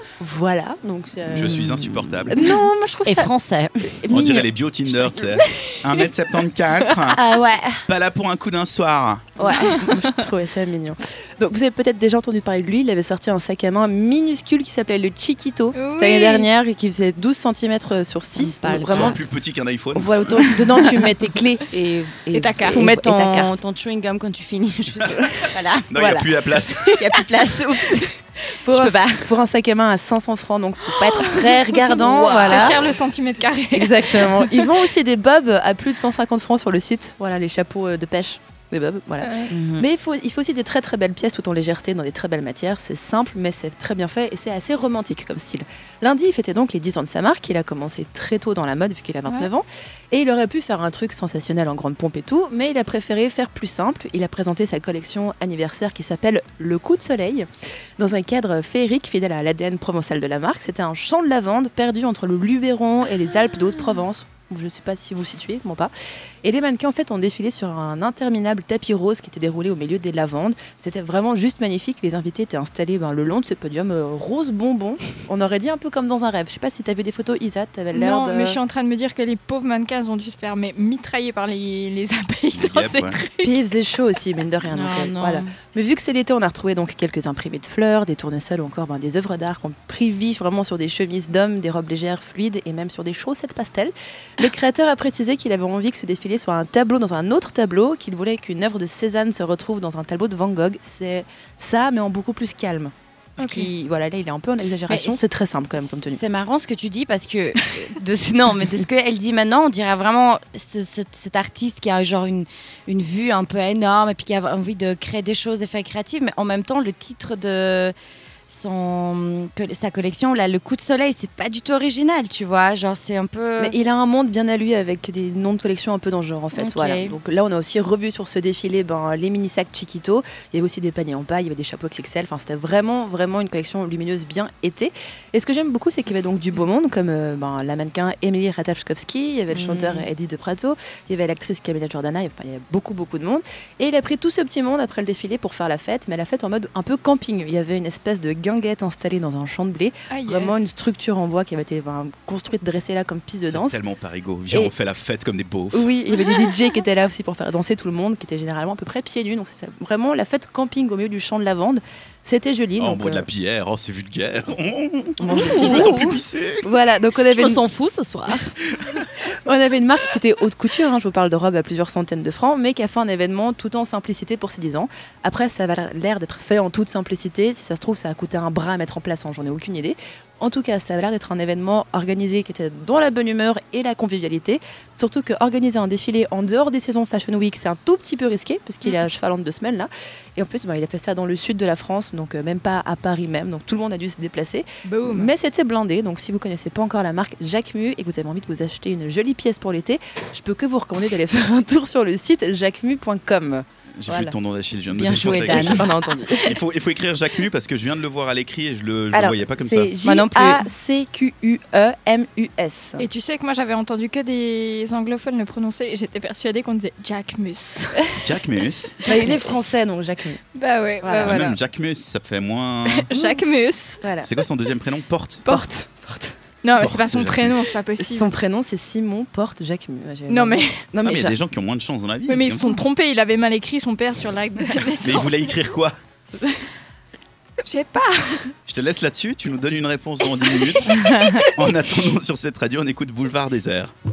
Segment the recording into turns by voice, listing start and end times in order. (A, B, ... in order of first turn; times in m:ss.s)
0:00.2-0:01.7 A
0:01.3-0:02.4 B
0:01.4-0:02.5 C
0:02.3-0:03.3 A
0:03.1-0:04.0 C
0:03.9-0:04.5 A
0:04.1-0:07.2 B
0:07.0-0:07.8 C
0:07.9-0:09.3 B
0:09.4-0:19.2 A
0:15.7-0:16.5 D
0:18.4-0:19.2 C
0:18.9-0:20.4 B
0:19.9-0:23.6 A
0:21.7-0:26.2 C
0:22.3-0:22.9 D
0:25.9-0:27.0 B
0:26.9-0:29.4 C
0:28.6-0:32.9 A
0:31.2-0:34.8 D
0:31.9-0:32.8 C
0:33.7-0:57.5 A
0:39.5-0:39.8 C
0:58.0-1:05.9 A
1:06.4-1:18.6 A
1:17.9-1:23.6 D
1:22.6-1:23.2 B
1:23.4-1:46.2 A
1:24.6-1:25.5 C
1:43.4-1:43.7 D
1:44.9-1:45.2 C
1:46.1-1:57.9 C
1:58.5-2:03.7 C
2:03.6-2:33.8 A
2:06.5-2:07.2 C
2:19.5-2:20.1 C
2:30.1-2:30.6 D
2:33.4-2:35.9 B
2:35.7-2:43.3 A
2:42.8-2:46.7 B
2:45.2-2:46.1 A
2:45.3-2:46.1 C
2:46.6-2:47.6 A
2:47.3-2:48.5 C
2:49.2-3:24.3 A
3:14.8-3:15.3 D
3:24.0-3:25.9 B
3:25.0-3:25.9 C
3:25.1-3:26.5 A
3:26.4-3:29.9 B
3:29.1-3:33.1 A
3:30.0-3:30.6 C
3:33.0-3:38.4 D
3:38.2-3:39.0 B
3:39.0-3:39.7 D
3:39.0-3:40.4 A
3:40.6-3:41.6 D
3:41.0-3:41.4 A
3:41.2-3:43.1 B
3:42.9-3:44.0 D
3:44.0-3:44.3 A
3:44.2-3:45.5 B
3:45.4-3:45.8 D
3:45.5-3:46.4 A
3:46.6-3:48.3 D
3:46.8-3:47.7 B
3:48.0-3:51.4 A
3:50.3-3:50.8 D
3:51.0-3:52.7 B
3:52.3-3:55.6 D
3:55.0-3:56.0 B
3:57.6-3:58.6 D
3:58.7-4:03.9 B
4:00.5-4:00.9 D
4:01.0-4:01.3 C